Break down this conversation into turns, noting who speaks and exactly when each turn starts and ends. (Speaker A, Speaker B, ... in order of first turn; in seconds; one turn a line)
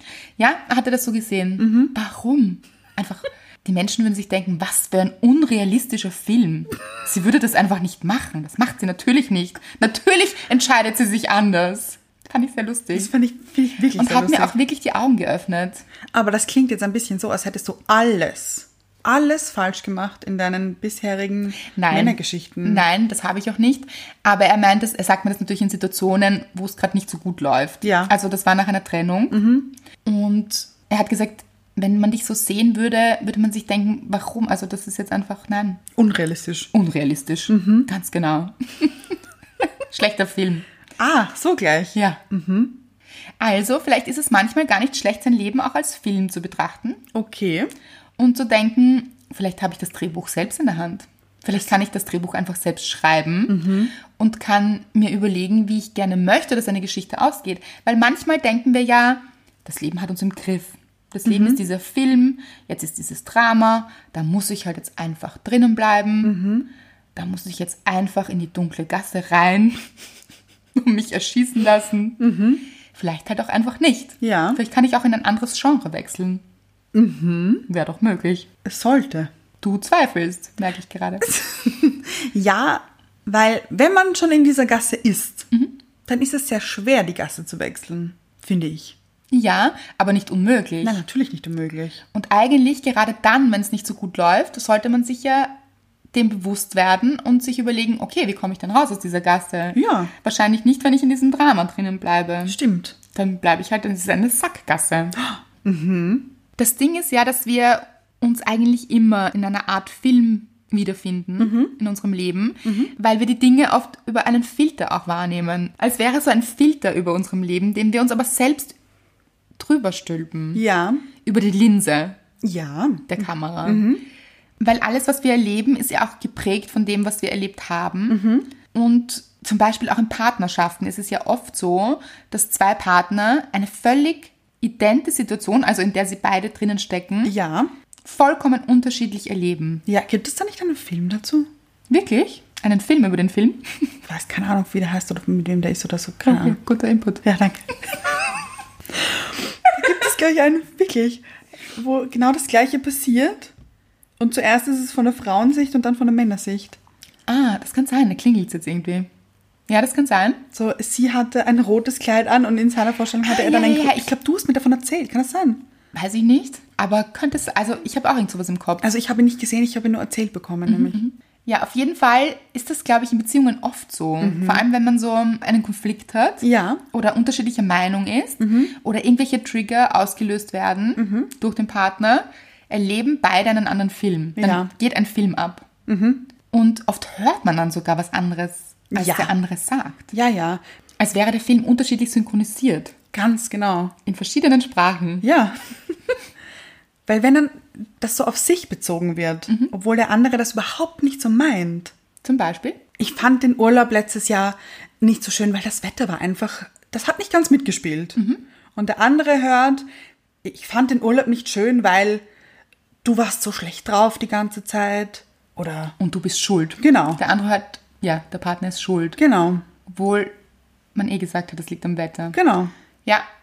Speaker A: 0.4-13.1
Speaker B: 1.6-1.9
Speaker B: 12.9-14.5
Speaker A: 13.9-15.8
Speaker B: 16.1-22.9
Speaker A: 21.7-29.4
Speaker B: 27.8-28.1
Speaker B: 29.3-29.7
Speaker A: 30.0-35.8
Speaker B: 35.9-36.7
Speaker A: 36.7-40.6
Speaker B: 37.5-37.9
Speaker B: 41.0-42.8
Speaker A: 41.9-42.2
Speaker A: 43.4-47.0
Speaker B: 47.1-47.7
Speaker A: 48.2-66.3
Speaker B: 53.5-53.9
Speaker B: 61.2-61.6
Speaker B: 66.2-66.7
Speaker A: 67.1-69.8
Speaker A: 70.7-72.2
Speaker B: 72.2-72.6
Speaker A: 72.9-76.4
Speaker B: 74.2-74.6
Speaker B: 76.9-77.7
Speaker A: 77.7-78.5
Speaker B: 78.6-79.3
Speaker A: 79.6-81.3
Speaker B: 81.2-85.5
Speaker B: 86.1-89.0
Speaker A: 89.3-91.0
Speaker B: 90.8-92.0
Speaker A: 92.1-95.5
Speaker A: 96.1-102.6
Speaker B: 99.7-100.1
Speaker B: 102.5-103.0
Speaker A: 103.1-105.2
Speaker B: 105.2-106.3
Speaker A: 106.6-118.8
Speaker B: 111.4-111.7
Speaker B: 112.6-112.9
Speaker A: 119.6-120.6
Speaker B: 120.5-121.0
Speaker A: 121.2-122.2
Speaker B: 122.4-124.0
Speaker A: 123.1-123.9
Speaker A: 124.6-137.3
Speaker B: 128.1-128.5
Speaker B: 137.2-137.7
Speaker A: 138.0-139.8
Speaker B: 139.8-141.5
Speaker A: 141.9-143.8
Speaker B: 144.1-146.6
Speaker A: 146.2-147.2
Speaker B: 147.2-147.7
Speaker B: 148.9-153.5
Speaker B: 154.2-156.8
Speaker A: 157.3-159.1
Speaker A: 159.7-160.4
Speaker B: 160.5-165.6
Speaker A: 163.2-164.1
Speaker A: 165.9-168.8
Speaker B: 168.8-171.0
Speaker A: 170.7-185.7
Speaker B: 174.2-174.6
Speaker B: 176.4-176.8
Speaker B: 178.4-178.7
Speaker B: 181.0-181.3
Speaker B: 184.4-184.7
Speaker B: 185.9-186.3
Speaker A: 186.5-190.1
Speaker B: 188.9-189.3
Speaker B: 190.1-190.6
Speaker A: 191.0-192.9
Speaker B: 193.1-193.9
Speaker A: 194.1-195.2
Speaker B: 195.2-195.9
Speaker B: 197.1-201.9
Speaker A: 202.2-202.8
Speaker B: 203.0-208.2
Speaker A: 208.2-208.4
Speaker B: 208.7-209.8
Speaker B: 210.4-212.2
Speaker B: 213.0-215.9
Speaker A: 216.0-219.2
Speaker B: 216.8-217.2
Speaker B: 219.2-219.6
Speaker A: 219.8-220.3
Speaker A: 220.9-222.3
Speaker B: 222.3-222.7